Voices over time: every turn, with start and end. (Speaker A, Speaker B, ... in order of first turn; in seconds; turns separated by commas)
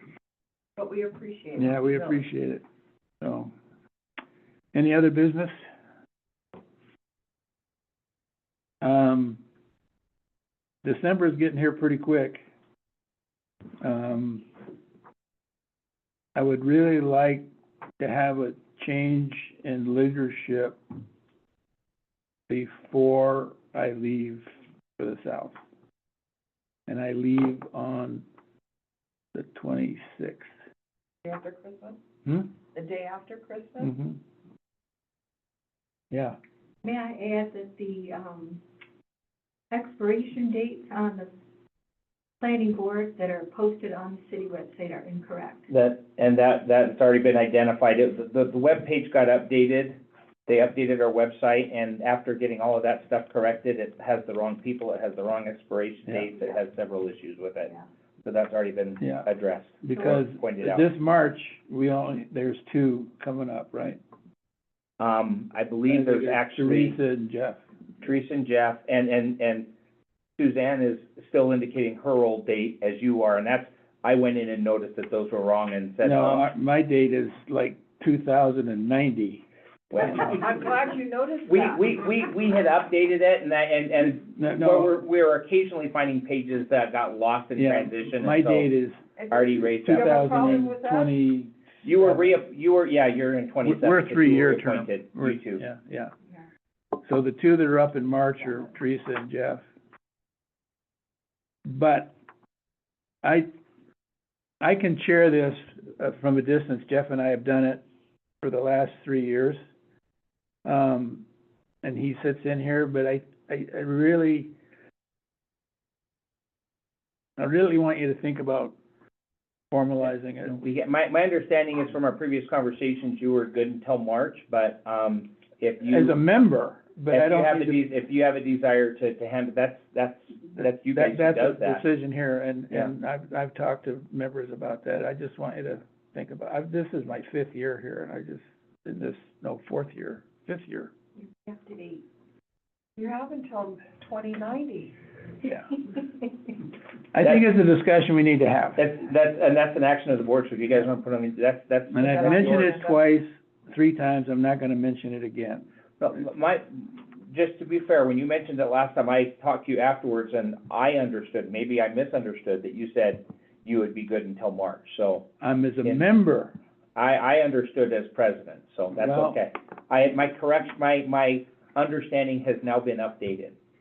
Speaker A: 0.8-2.2, Speaker B: 1.6-2.6, Speaker B: 3.2-3.5, Speaker B: 4.7-5.5, Speaker B: 8.8-9.4, Speaker B: 10.8-12.4, Speaker B: 13.8-14.4, Speaker B: 16.4-17.5, Speaker B: 18.0-20.8, Speaker B: 22.5-24.5, Speaker B: 25.0-25.6, Speaker B: 26.9-28.2, Speaker B: 29.3-30.5, Speaker A: 31.2-32.0, Speaker A: 32.7-33.9, Speaker B: 33.8-34.2, Speaker B: 36.1-36.4, Speaker C: 36.8-38.6, Speaker C: 39.7-41.3, Speaker C: 42.4-45.7, Speaker D: 45.7-60.9, Speaker B: 59.0-59.3, Speaker B: 59.8-64.0, Speaker D: 65.0-67.0, Speaker B: 65.9-67.6, Speaker D: 68.0-69.7, Speaker D: 70.4-76.5, Speaker B: 76.0-79.4, Speaker A: 80.0-82.0, Speaker B: 80.0-80.3, Speaker D: 81.5-88.7, Speaker B: 84.2-85.0, Speaker B: 87.6-89.0, Speaker A: 89.2-91.1, Speaker D: 89.3-90.6, Speaker B: 89.8-92.3, Speaker D: 91.8-95.6, Speaker B: 93.6-96.1, Speaker B: 97.0-99.7, Speaker B: 101.7-102.2, Speaker B: 103.2-103.5, Speaker B: 104.6-107.8, Speaker B: 108.4-109.6, Speaker B: 110.7-111.2, Speaker B: 111.8-114.5, Speaker B: 117.4-118.8, Speaker B: 119.7-120.6, Speaker D: 120.5-126.2, Speaker B: 125.9-127.8, Speaker D: 127.1-131.9, Speaker B: 130.9-140.9, Speaker A: 141.5-142.1, Speaker A: 143.0-145.0, Speaker B: 147.1-148.8, Speaker D: 148.8-152.8, Speaker B: 151.9-155.7, Speaker A: 152.0-153.0, Speaker D: 156.0-165.3, Speaker B: 165.4-166.5, Speaker D: 167.0-173.6, Speaker B: 169.0-169.4